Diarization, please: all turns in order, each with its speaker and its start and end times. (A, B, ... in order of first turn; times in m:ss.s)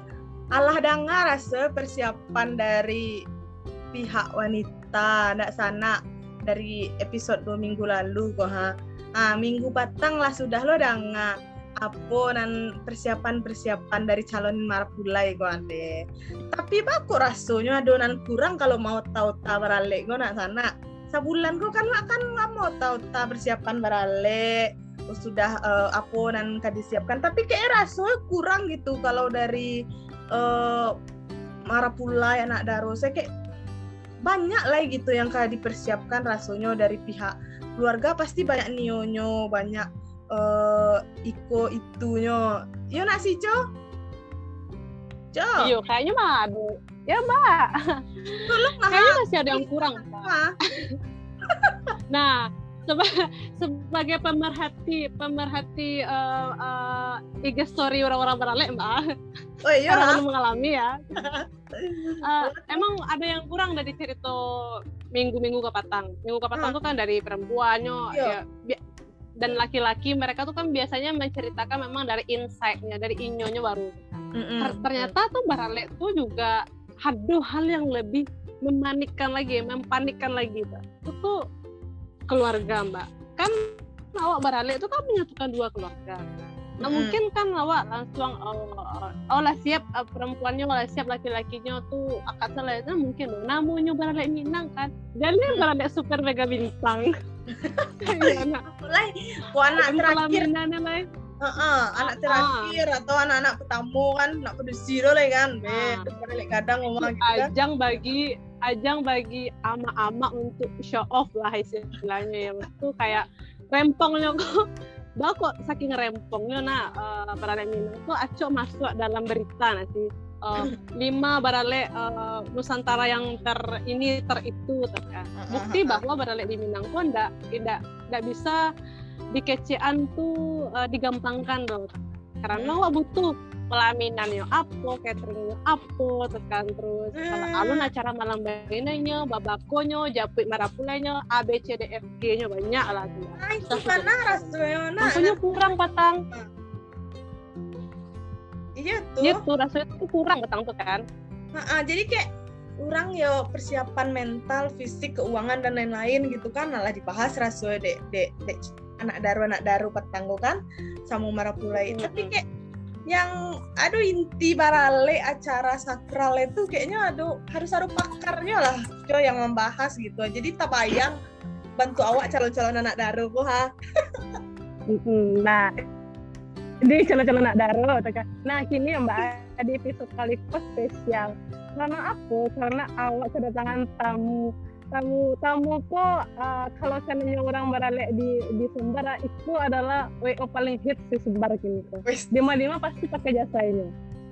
0:00.5-0:03.2 A
0:03.9-0:16.0 A
0:16.5-0:29.8 A
0:30.3-0:31.0 A
0:31.7-0:33.3 A
0:34.2-0:43.6 A
0:45.3-0:45.8 A
0:45.6-0:50.9 B
0:48.4-0:50.6 A
0:51.5-0:51.9 A
0:52.1-0:59.1 B
0:59.6-1:00.2 A
0:59.9-1:01.3 B
1:01.2-1:02.8 A
1:02.2-1:08.8 B
1:08.1-1:08.4 A
1:09.4-1:21.4 B
1:14.4-1:15.1 A
1:22.3-1:37.1 B
1:26.8-1:27.2 A
1:37.5-1:40.5 A
1:38.0-1:38.6 B
1:39.6-1:41.1 B
1:41.4-1:47.5 A
1:42.0-1:42.8 B
1:45.7-1:46.1 B
1:47.0-1:54.6 B
1:55.2-2:08.6 B
2:05.4-2:06.0 A
2:09.3-2:26.2 B
2:12.5-2:12.8 A
2:17.1-2:17.9 A
2:23.4-2:25.5 A
2:28.8-2:29.4 A
2:29.2-2:31.0 B
2:31.5-2:32.2 A
2:32.8-2:42.4 A
2:41.8-2:42.3 B
2:43.1-2:51.2 A
2:51.8-2:53.7 A
2:54.9-2:55.8 B
2:56.8-3:13.9 B
3:12.0-3:12.3 A